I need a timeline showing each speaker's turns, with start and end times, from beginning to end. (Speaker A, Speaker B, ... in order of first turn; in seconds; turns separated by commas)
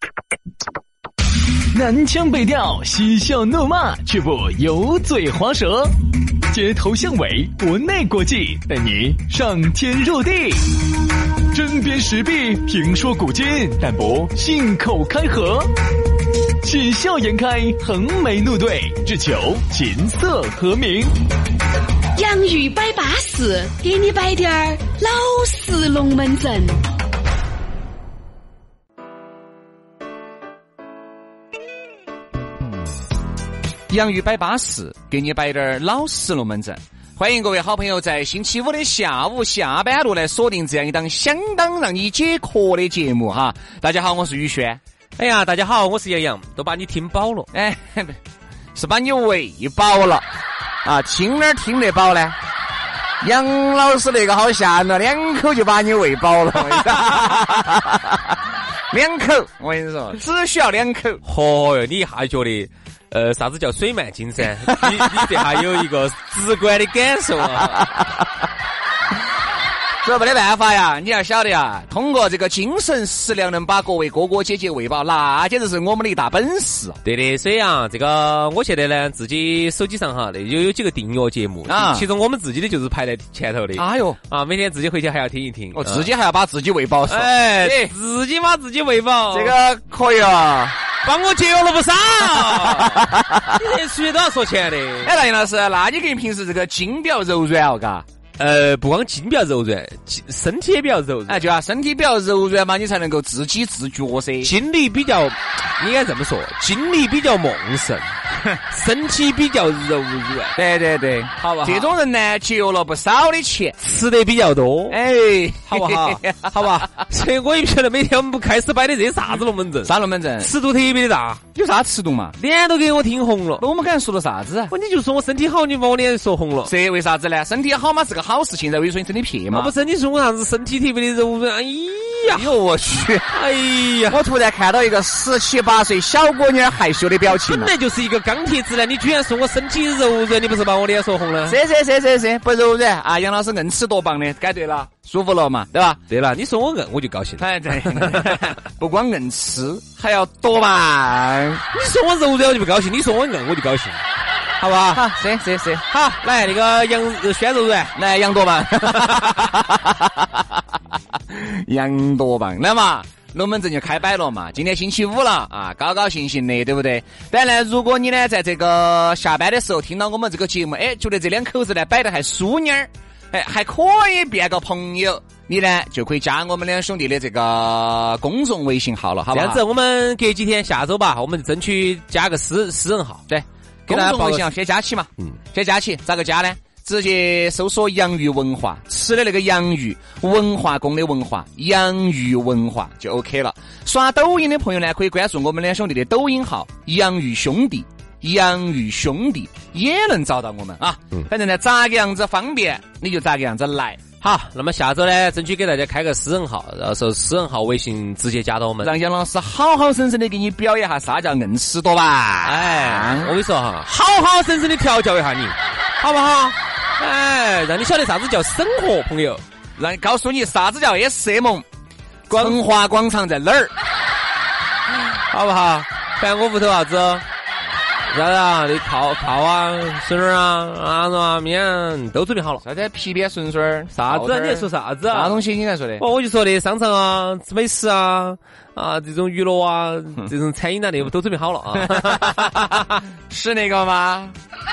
Speaker A: 1.7-5.9, Speaker A: 6.5-10.8, Speaker A: 11.5-15.7, Speaker A: 16.6-21.1, Speaker B: 22.1-26.8, Speaker C: 33.9-44.8, Speaker D: 45.2-47.5, Speaker C: 47.5-48.2, Speaker C: 48.7-50.2, Speaker C: 50.8-52.4, Speaker C: 53.2-58.4, Speaker C: 58.9-61.2, Speaker D: 61.2-67.8, Speaker C: 64.6-65.8, Speaker C: 67.4-68.4, Speaker C: 70.0-77.0, Speaker D: 77.0-86.1, Speaker C: 81.7-82.1, Speaker C: 83.7-84.2, Speaker C: 85.7-87.9, Speaker D: 87.1-89.5, Speaker C: 89.3-90.8, Speaker D: 91.0-95.1, Speaker C: 92.2-93.6, Speaker C: 95.0-98.0, Speaker D: 98.4-101.4, Speaker C: 101.3-104.5, Speaker D: 104.4-108.1, Speaker D: 108.7-110.6, Speaker C: 110.5-113.8, Speaker D: 111.4-111.9, Speaker D: 113.8-115.0, Speaker C: 114.9-116.9, Speaker D: 115.7-121.4, Speaker C: 119.8-120.5, Speaker C: 121.5-122.3, Speaker D: 122.4-123.6, Speaker C: 123.6-124.7, Speaker D: 124.7-126.7, Speaker C: 126.6-129.7, Speaker D: 129.5-132.5, Speaker C: 132.3-133.3, Speaker D: 133.3-134.2, Speaker C: 134.1-137.7, Speaker D: 137.2-141.6, Speaker C: 141.4-146.0, Speaker D: 146.1-148.4, Speaker C: 147.4-151.6, Speaker D: 151.7-154.0, Speaker D: 154.6-155.1, Speaker C: 154.9-155.8, Speaker D: 155.9-157.9, Speaker C: 157.9-160.6, Speaker C: 161.3-179.6, Speaker D: 179.3-183.2, Speaker C: 183.3-204.0, Speaker D: 183.9-184.5, Speaker D: 204.2-208.9, Speaker C: 208.8-213.3, Speaker D: 212.4-219.4, Speaker C: 219.8-221.7, Speaker D: 222.3-222.6, Speaker C: 222.3-223.7, Speaker D: 225.0-227.2, Speaker D: 228.1-232.6, Speaker C: 232.6-236.0, Speaker D: 233.9-235.4, Speaker D: 236.0-243.0, Speaker C: 241.8-244.3